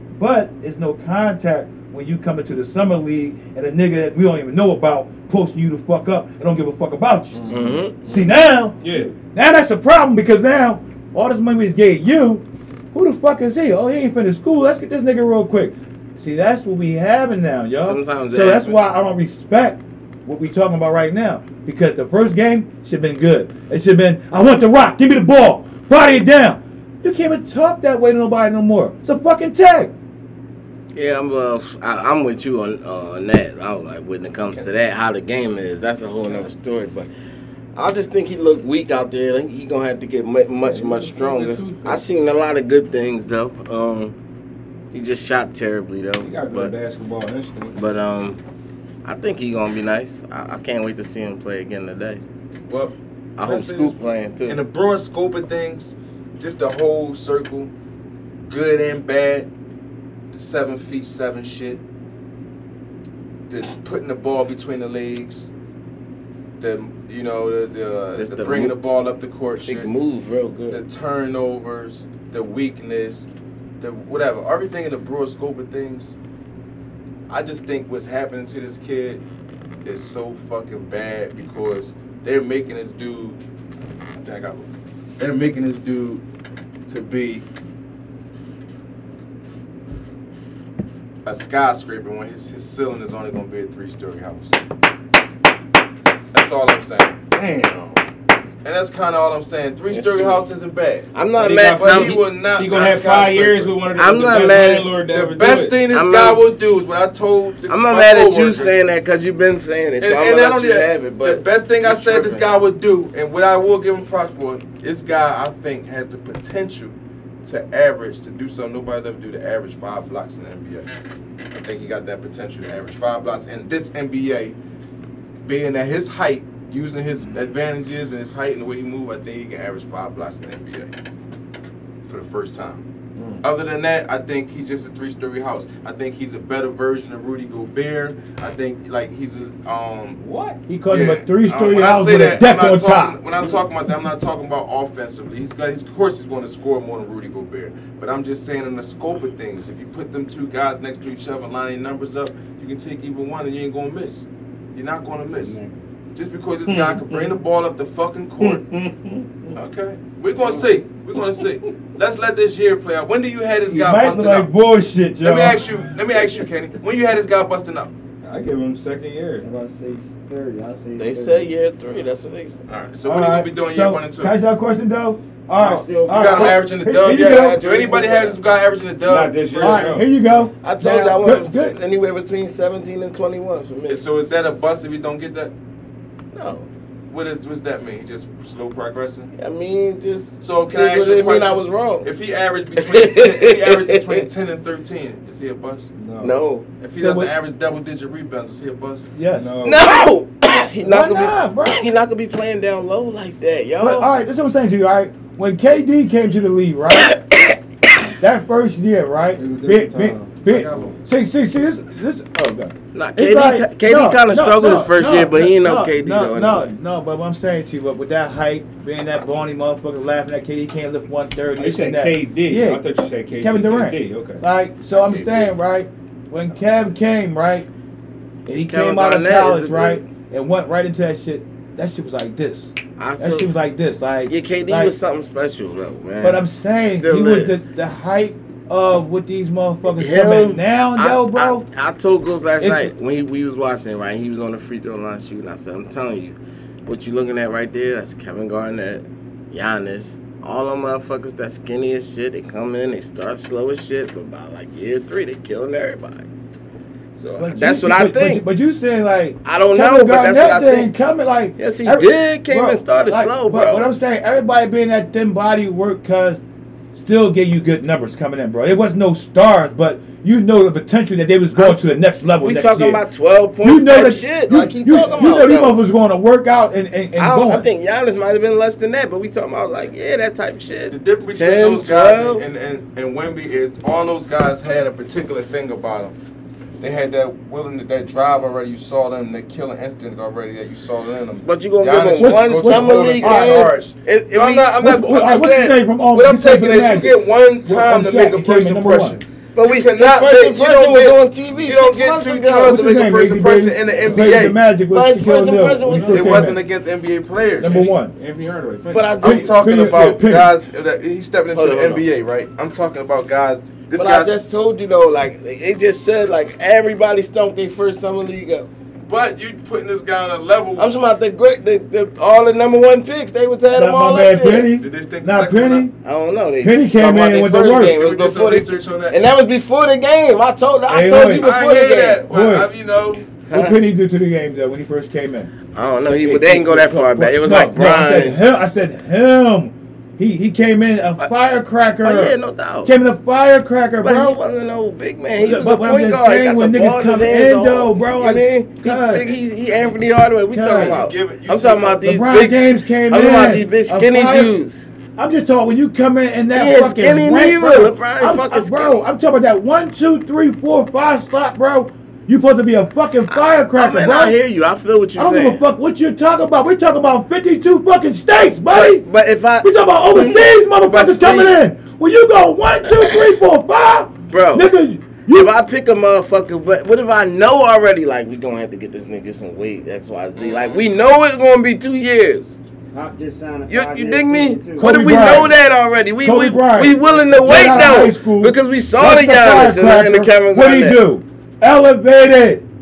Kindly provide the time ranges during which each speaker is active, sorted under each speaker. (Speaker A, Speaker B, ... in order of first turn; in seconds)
Speaker A: 0.1-7.4, 8.0-29.9, 140.7-143.2, 163.7-165.6, 173.0-177.7, 179.6-181.8, 197.0-197.3, 199.1-199.5, 200.8-201.8, 203.8-207.1, 208.2-222.8, 223.4-227.7, 228.5-234.9, 236.2-241.6, 242.6-242.9, 257.4-266.4, 266.9-273.0, 273.6-277.7, 292.2-293.7, 294.8-299.2, 302.6-306.6, 307.6-308.1, 309.2-310.5, 323.7-325.9, 326.6-327.9, 330.9-331.5, 332.3-332.7, 333.5-335.5, 336.1-344.4, 345.4-349.4, 350.5-351.0, 352.0-354.5, 355.2-364.4, 365.2-369.0, 369.6-375.5, 384.8-385.5, 386.2-392.6
Speaker B: 7.3-9.1, 40.7-42.0, 46.2-47.8, 97.3-98.0, 101.4-105.8, 133.2-133.4, 140.2-140.6, 156.7-157.4, 158.4-159.5, 168.2-169.5, 179.1-180.1, 196.0-196.4, 199.4-200.1, 209.4-211.0, 221.6-224.4, 305.9-306.3, 307.6-309.2
Speaker C: 7.5-8.0, 17.8-18.8, 30.9-37.1, 37.8-44.1, 44.9-46.7, 47.7-48.4, 49.0-52.2, 53.4-54.6, 68.2-68.7, 69.7-70.8, 99.9-100.4, 101.1-102.2, 104.0-104.9, 105.9-106.4, 107.7-112.5, 171.0-172.6, 177.0-178.4, 180.6-184.0, 186.3-186.7, 189.4-192.1, 192.8-194.3, 196.2-196.7, 199.6-204.1, 207.0-207.6, 212.9-216.7, 228.5-230.0, 233.0-233.5, 234.3-236.4, 237.0-237.5, 240.0-256.3, 257.1-258.5, 259.4-260.9, 261.6-263.9, 271.5-275.8, 277.2-282.4, 291.4-294.7, 299.6-302.9, 304.9-306.5, 308.9-309.5, 311.5-312.0, 313.9-318.7, 320.8-324.7, 326.0-332.2, 333.5-333.8, 335.7-338.4, 342.0-342.9, 344.0-354.9, 356.5-359.0, 363.3-365.6, 368.7-371.3, 372.9-373.2, 374.3-374.7, 375.3-382.5, 383.7-391.0
Speaker D: 52.7-57.7, 58.5-59.5, 60.3-61.8, 63.5-65.5, 66.6-69.9, 70.7-73.3, 73.8-76.2, 77.3-79.2, 79.8-83.4, 84.1-86.2, 86.9-87.4, 91.2-94.6, 96.3-97.2, 98.6-101.1, 101.8-108.8, 110.0-120.9, 121.5-124.5, 125.5-130.9, 132.1-132.8, 133.4-140.2, 140.9-155.6, 156.1-158.6, 159.5-164.5, 165.2-167.9, 172.7-174.3, 176.1-179.9, 183.9-185.5, 187.1-189.3, 190.4-195.9, 196.8-199.1, 225.0-225.5, 280.9-286.1, 286.8-304.6, 306.1-307.9, 309.2-314.3, 319.1-321.0, 324.8-325.9, 327.7-329.3, 331.2-333.3, 350.7-352.0, 370.9-371.5, 380.4-380.8
Speaker E: 155.3-155.8, 160.4-160.7, 169.4-171.5, 175.6-176.6, 382.9-385.4